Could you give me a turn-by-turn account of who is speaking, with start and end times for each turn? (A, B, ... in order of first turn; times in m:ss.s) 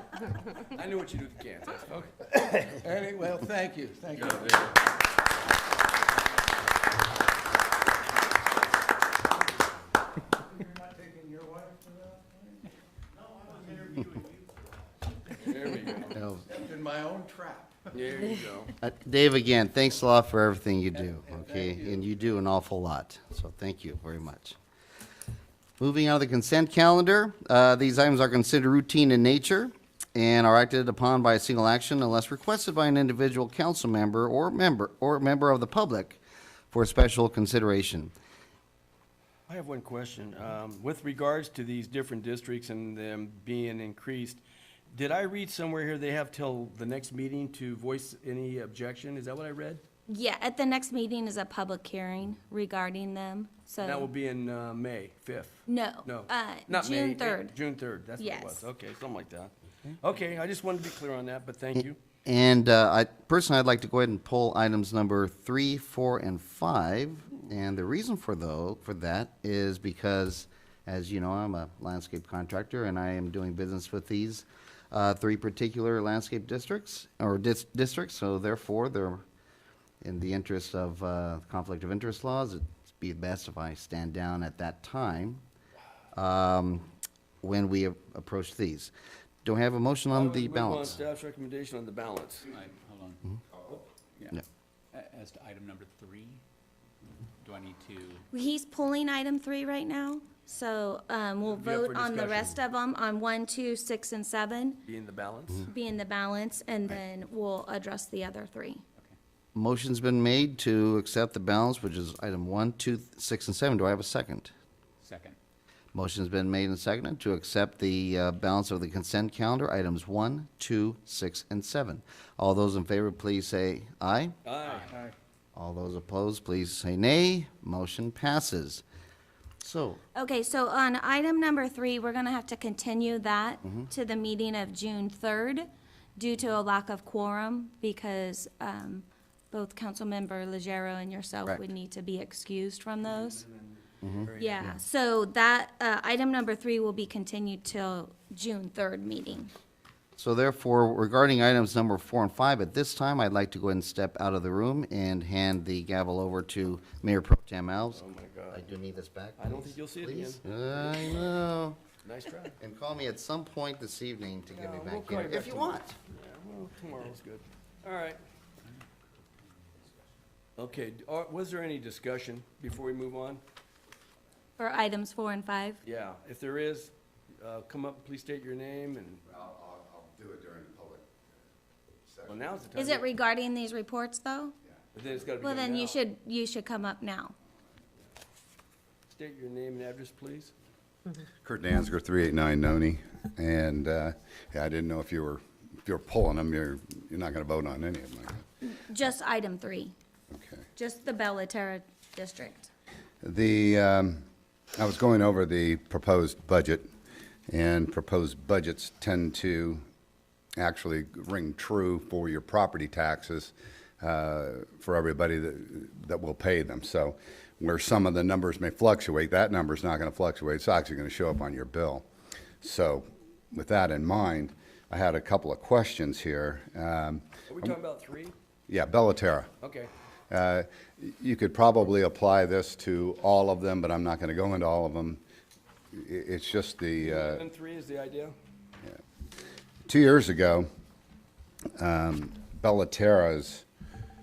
0:00.7-0:02.1 A
0:02.3-0:04.8 B
0:04.1-0:04.8 A
0:10.6-0:12.4 B
0:13.2-0:14.4 B
0:15.4-0:16.2 A
0:16.1-0:16.5 C
0:16.5-0:17.9 B
0:17.9-0:18.7 A
0:18.8-0:24.6 C
0:21.0-0:22.0 B
0:25.8-0:38.1 C
0:39.5-0:49.8 A
0:50.1-0:54.1 D
0:53.8-1:02.0 A
0:55.7-0:57.5 D
0:58.2-0:58.7 D
1:02.2-1:19.2 C
1:20.0-1:25.4 C
1:26.1-1:26.9 C
1:27.4-1:28.9 C
1:29.4-1:31.0 C
1:30.1-1:32.4 A
1:32.5-1:33.2 E
1:34.9-1:36.4 E
1:37.4-1:38.2 E
1:38.3-1:44.8 D
1:41.4-1:42.6 A
1:44.8-1:45.7 A
1:45.6-1:48.8 D
1:49.5-1:54.5 C
1:55.0-1:55.4 E
1:55.9-2:04.3 C
2:04.4-2:04.9 A
2:04.7-2:05.1 E
2:05.5-2:08.8 C
2:09.6-2:10.0 C
2:10.1-2:23.4 D
2:23.1-2:23.7 A
2:24.0-2:24.7 C
2:24.2-2:24.7 A
2:24.4-2:29.5 D
2:30.2-2:41.8 C
2:37.9-2:38.6 A
2:39.4-2:41.1 A
2:42.0-2:42.5 A
2:42.6-2:46.0 C
2:44.5-2:48.2 A
2:50.6-2:53.4 A
2:54.6-2:55.8 D
2:55.8-2:59.2 A
2:59.3-3:01.0 F
3:02.0-3:02.4 F
3:02.2-3:03.1 A
3:02.7-3:04.5 D
3:04.9-3:06.0 A
3:05.4-3:07.3 D
3:09.1-3:10.5 A
3:11.4-3:18.4 F
3:18.6-3:19.9 D
3:20.3-3:20.7 F
3:20.8-3:22.7 D
3:23.2-3:24.2 F
3:24.8-3:26.9 F
3:27.5-3:29.8 F
3:30.6-3:42.0 F
3:42.6-3:47.2 F
3:47.5-3:48.3 A
3:48.7-3:49.5 F
3:49.6-3:49.9 A
3:50.3-3:55.2 F
3:55.9-3:57.4 F
3:57.0-3:58.3 A
3:59.8-4:00.6 F
4:01.8-4:03.6 F